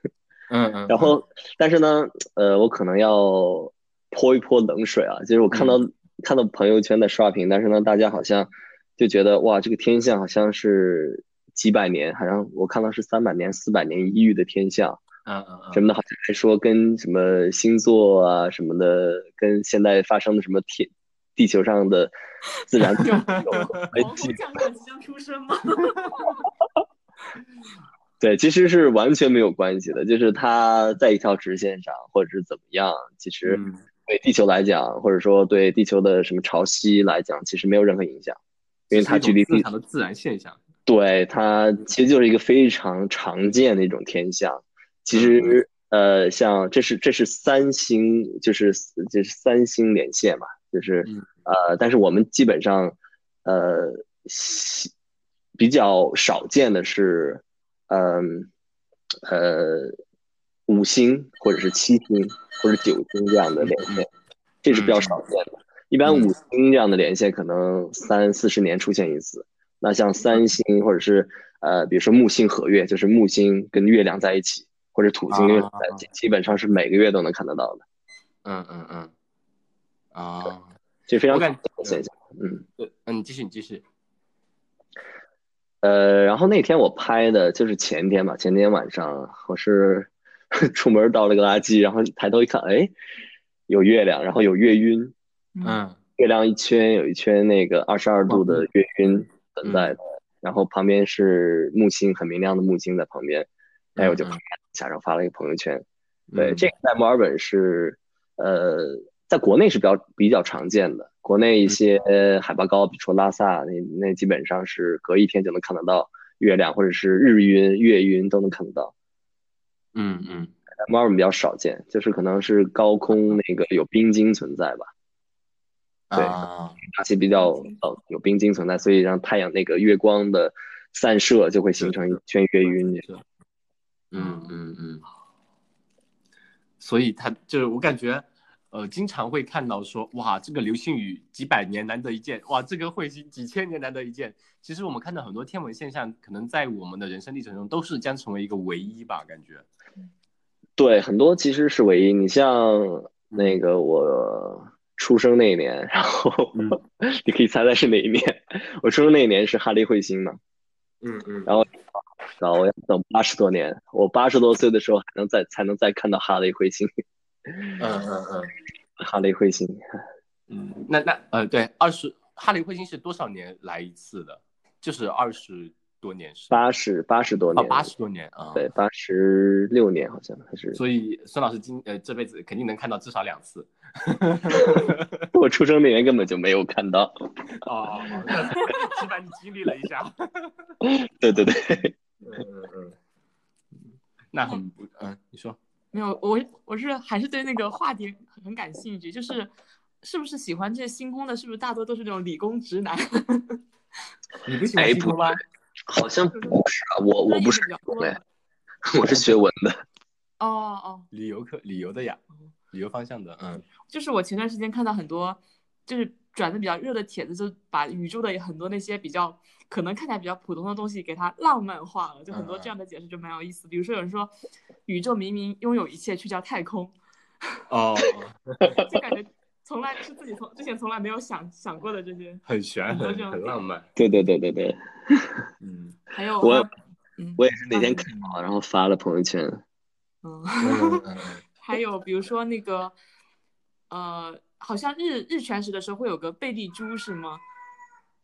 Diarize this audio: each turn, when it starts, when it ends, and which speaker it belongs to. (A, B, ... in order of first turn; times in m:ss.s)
0:00.5-0:01.1 A
0:00.9-0:15.0 B
0:05.5-0:05.8 A
0:15.2-0:15.8 A
0:15.7-0:22.1 B
0:22.7-0:24.4 B
0:23.0-0:26.4 C
0:23.0-0:23.9 A
0:28.2-0:38.4 B
0:33.4-0:33.8 A
0:38.9-0:39.6 B
0:38.9-0:40.6 A
0:40.9-0:54.9 B
0:45.1-0:45.6 A
0:55.6-0:58.5 B
0:59.2-1:00.0 B
1:00.7-1:04.1 B
1:03.6-1:04.0 A
1:04.6-1:17.8 B
1:04.7-1:05.2 A
1:06.0-1:06.3 A
1:15.3-1:16.0 A
1:18.4-1:19.1 A
1:20.1-1:20.8 A
1:21.1-1:22.6 B
1:21.3-1:22.0 A
1:22.8-1:23.8 A
1:25.8-1:32.9 B
1:33.7-1:35.1 B
1:35.6-1:36.0 A
1:36.2-1:45.8 B
1:38.3-1:38.6 A
1:39.6-1:40.0 A
1:44.0-1:44.4 A
1:46.3-1:46.7 A
1:46.4-1:58.9 B
1:59.9-2:00.5 A
2:00.8-2:04.9 B
2:06.1-2:06.8 A
2:06.1-2:13.0 B
2:07.4-2:07.7 C
2:11.8-2:12.2 A
2:14.1-2:15.0 A
2:14.2-2:14.5 C
2:16.8-2:29.6 A
2:30.8-2:40.4 B
2:33.3-2:33.6 A
2:36.5-2:36.8 A
2:41.0-2:41.6 A
2:41.4-2:41.8 B
2:42.4-2:46.9 B
2:47.8-2:48.5 A
2:49.0-2:49.8 B
2:50.5-2:56.6 A
2:56.5-2:57.9 B
2:57.5-2:58.7 A
2:58.5-3:00.8 B
3:00.7-3:05.2 A
3:05.3-3:07.1 B
3:07.6-3:10.5 A
3:10.8-3:11.9 B
3:12.2-3:13.0 A
3:14.3-3:15.6 A
3:15.9-3:19.5 C
3:20.0-3:23.6 C
3:24.4-3:25.4 A
3:24.8-3:25.4 B
3:25.9-3:28.2 B
3:26.3-3:26.6 C
3:27.2-3:28.2 C
3:28.8-3:29.8 B
3:30.4-3:31.1 C
3:31.1-3:33.6 A
3:33.9-3:44.3 C
3:42.3-3:42.7 A
3:44.8-3:46.9 C
3:47.7-3:48.8 A
3:48.8-3:53.5 C
3:52.4-3:53.9 A
3:54.0-3:55.3 B
3:55.6-3:56.0 A
3:56.1-3:58.2 C
3:56.4-3:56.7 B
3:57.4-3:59.6 B
4:00.2-4:01.0 C
4:00.6-4:01.4 A
4:01.6-4:03.0 C
4:03.9-4:07.4 C